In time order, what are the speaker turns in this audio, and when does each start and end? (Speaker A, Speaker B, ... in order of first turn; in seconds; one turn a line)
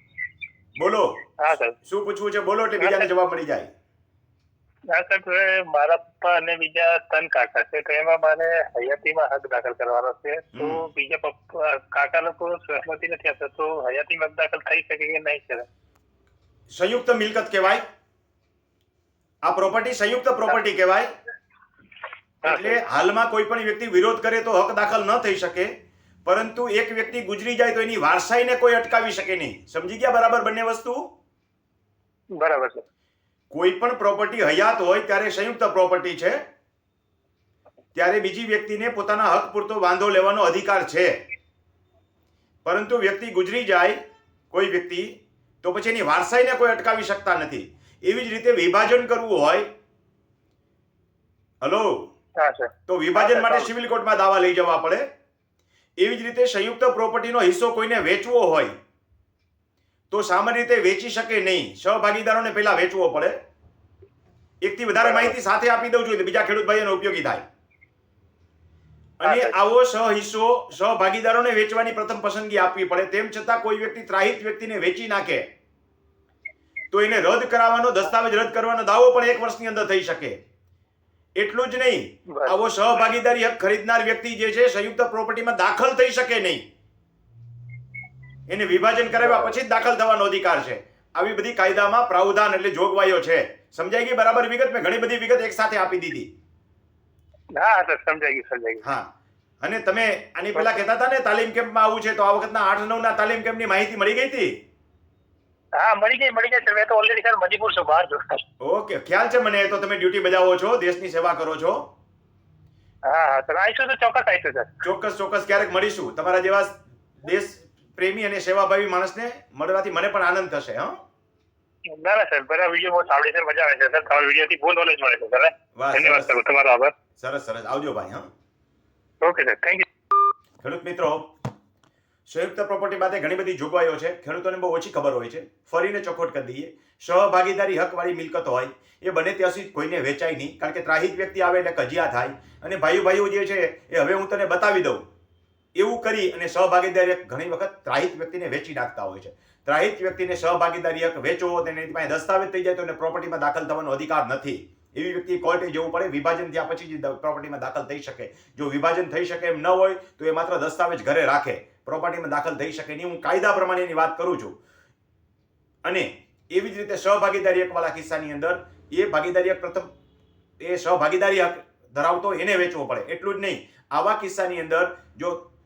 Speaker A: 0.8-1.2
Speaker B: 1.4-1.8
Speaker A: 1.8-3.7
Speaker B: 2.8-3.1
Speaker B: 4.9-15.7
Speaker A: 10.5-10.8
Speaker A: 16.7-17.8
Speaker A: 19.4-21.1
Speaker A: 22.4-25.7
Speaker B: 22.4-22.8
Speaker A: 26.2-31.0
Speaker B: 32.4-32.9
Speaker A: 33.5-36.4
Speaker A: 37.9-41.1
Speaker A: 42.6-44.0
Speaker A: 44.5-45.1
Speaker A: 45.6-49.6
Speaker A: 51.6-52.0
Speaker B: 52.4-53.7
Speaker A: 52.9-55.0
Speaker A: 56.0-58.7
Speaker A: 60.1-63.3
Speaker A: 64.6-67.4
Speaker B: 65.0-65.3
Speaker A: 69.2-75.4
Speaker B: 69.2-69.5
Speaker A: 76.9-80.3
Speaker A: 81.4-86.6
Speaker B: 82.3-82.6
Speaker A: 88.5-96.3
Speaker B: 89.2-89.5
Speaker B: 97.5-98.8
Speaker A: 99.6-104.5
Speaker B: 100.5-100.8
Speaker B: 105.8-108.4
Speaker A: 108.6-111.8
Speaker B: 113.1-114.8
Speaker A: 114.8-120.9
Speaker B: 121.9-126.9
Speaker A: 125.8-126.3
Speaker A: 127.2-128.2
Speaker B: 129.2-129.8
Speaker A: 130.6-131.2
Speaker A: 132.3-145.0
Speaker A: 145.8-164.6
Speaker A: 165.8-169.9
Speaker A: 170.6-175.4